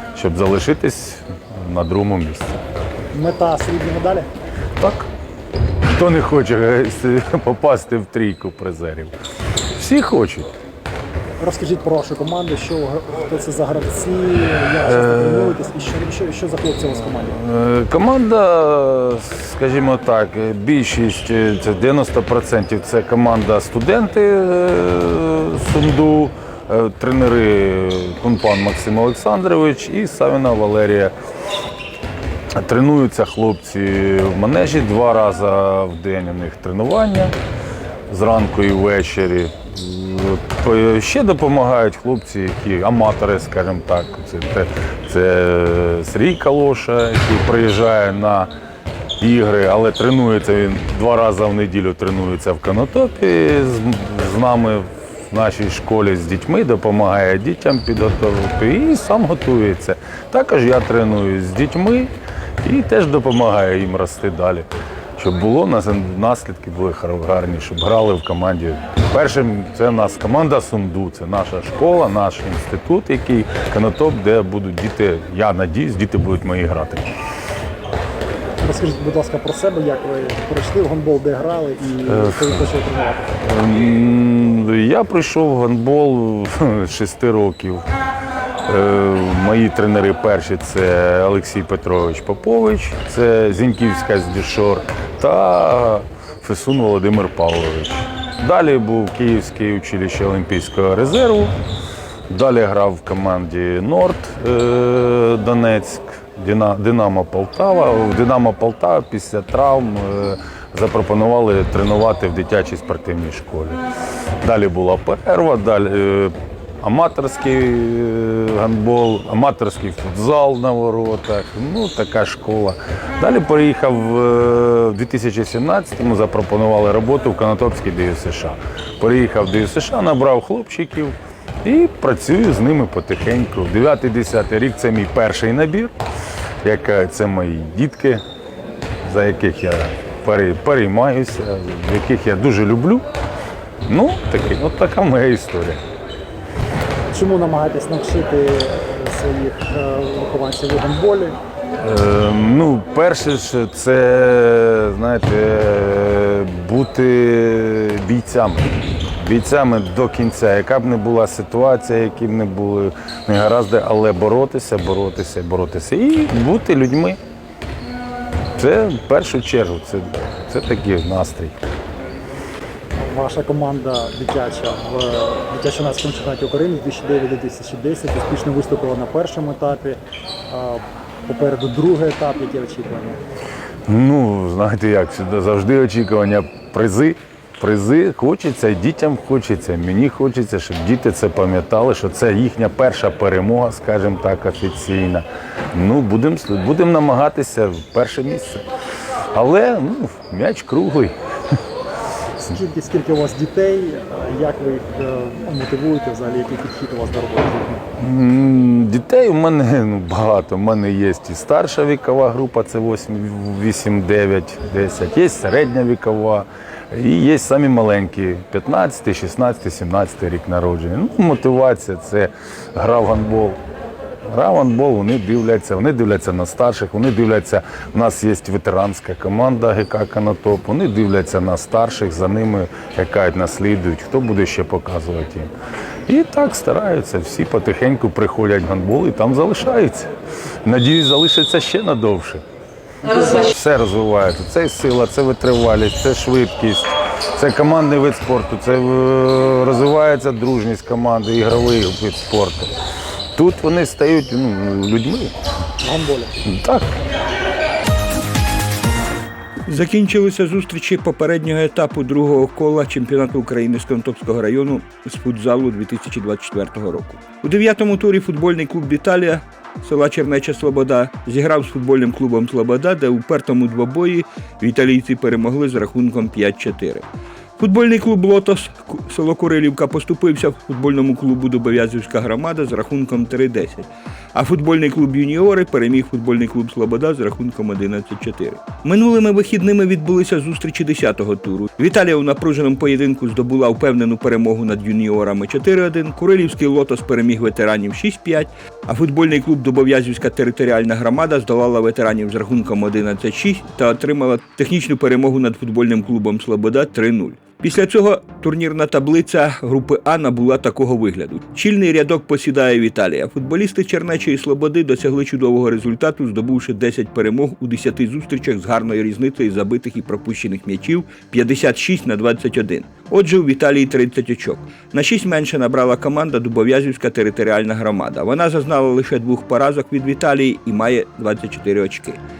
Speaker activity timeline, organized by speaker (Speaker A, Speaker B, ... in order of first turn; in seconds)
Speaker A: 0.1-2.6, 4.8-5.1, 5.9-9.1, 9.8-10.5, 14.9-15.6, 17.3-31.1, 32.6-37.3, 38.1-48.5, 49.2-77.1, 82.0-82.7, 83.3-87.8, 88.7-101.5, 102.3-113.8, 114.4-135.9, 136.6-138.2, 139.0-143.0, 143.9-145.8, 151.8-167.2, 168.6-171.6, 183.9-198.6, 199.3-201.1, 208.0-223.6, 224.3-235.5, 236.1-240.1, 240.6-242.4, 243.1-252.7, 253.3-255.3, 256.5-256.9
Speaker B: 3.1-4.3, 11.4-17.4, 78.6-83.3, 147.1-151.4, 173.0-183.2, 202.4-207.8, 255.8-256.4
Speaker C: 259.6-277.0, 277.6-332.2